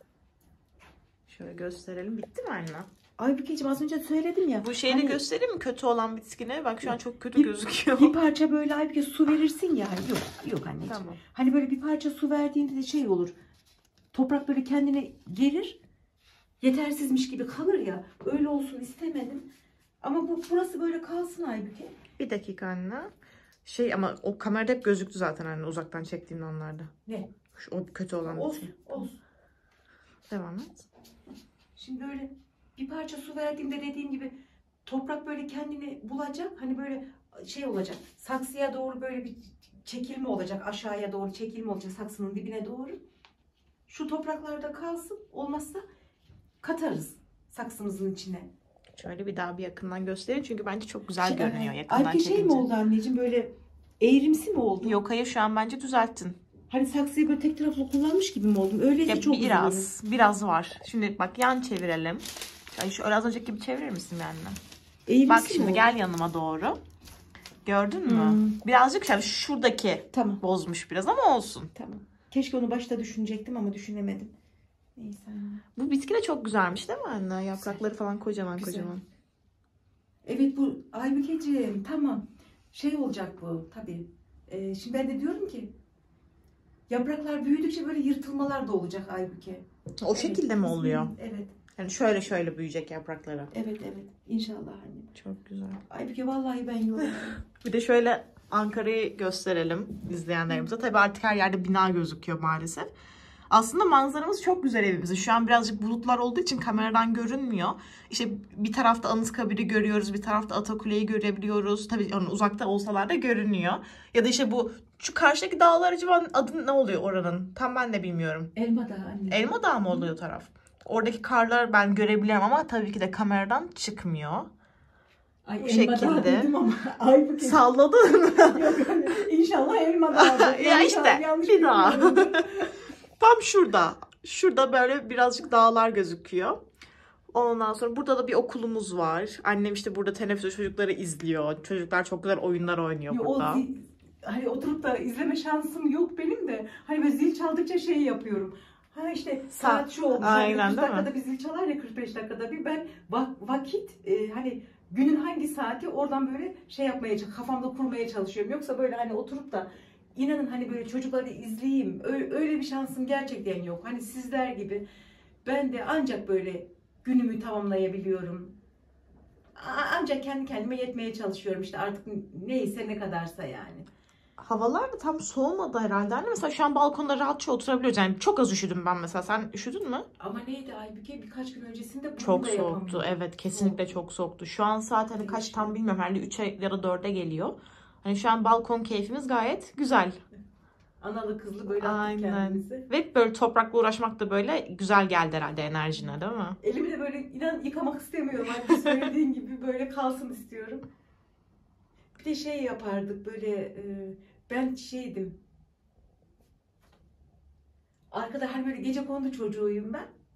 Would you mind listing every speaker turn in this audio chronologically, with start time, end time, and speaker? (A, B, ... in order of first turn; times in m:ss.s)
0:01.3-0:02.9 A
0:03.2-0:05.2 B
0:04.6-0:08.2 A
0:06.8-0:13.4 B
0:10.9-0:11.2 A
0:14.1-0:15.8 B
0:16.6-0:19.5 B
0:20.0-0:22.0 B
0:22.2-0:23.1 A
0:23.6-0:26.9 A
0:27.1-0:27.3 B
0:27.5-0:29.0 A
0:28.3-0:29.2 B
0:30.3-0:30.8 A
0:31.8-0:43.0 B
0:43.9-0:45.8 B
0:46.6-0:48.5 B
0:49.0-0:52.7 A
0:51.2-0:55.0 B
0:54.8-0:56.4 A
0:56.7-0:59.9 B
0:59.1-1:04.6 A
1:05.1-1:05.9 B
1:05.3-1:06.8 A
1:07.6-1:11.7 A
1:08.1-1:08.6 B
1:10.1-1:10.4 B
1:11.8-1:14.3 B
1:15.0-1:15.6 B
1:15.8-1:19.0 A
1:18.6-1:18.9 B
1:20.2-1:25.7 B
1:26.9-1:31.6 B
1:30.0-1:31.1 A
1:31.7-1:33.5 A
1:33.5-1:35.1 B
1:35.2-1:35.8 A
1:35.9-1:37.4 B
1:37.0-1:42.9 A
1:43.5-1:58.5 A
1:58.6-2:00.1 B
1:59.3-2:04.5 A
2:05.5-2:12.8 B
2:05.6-2:06.5 A
2:07.4-2:09.0 A
2:10.1-2:16.6 A
2:17.3-2:23.6 A
2:23.1-2:44.8 B
2:29.5-2:31.1 A
2:45.4-2:48.6 B
2:49.6-2:53.9 B
2:54.4-3:00.1 A
3:00.2-3:03.9 B
3:02.2-3:10.2 A
3:05.2-3:05.8 B
3:11.0-3:12.9 B
3:11.8-3:16.6 A
3:16.6-3:20.9 B
3:22.2-3:25.4 B
3:28.1-3:30.1 B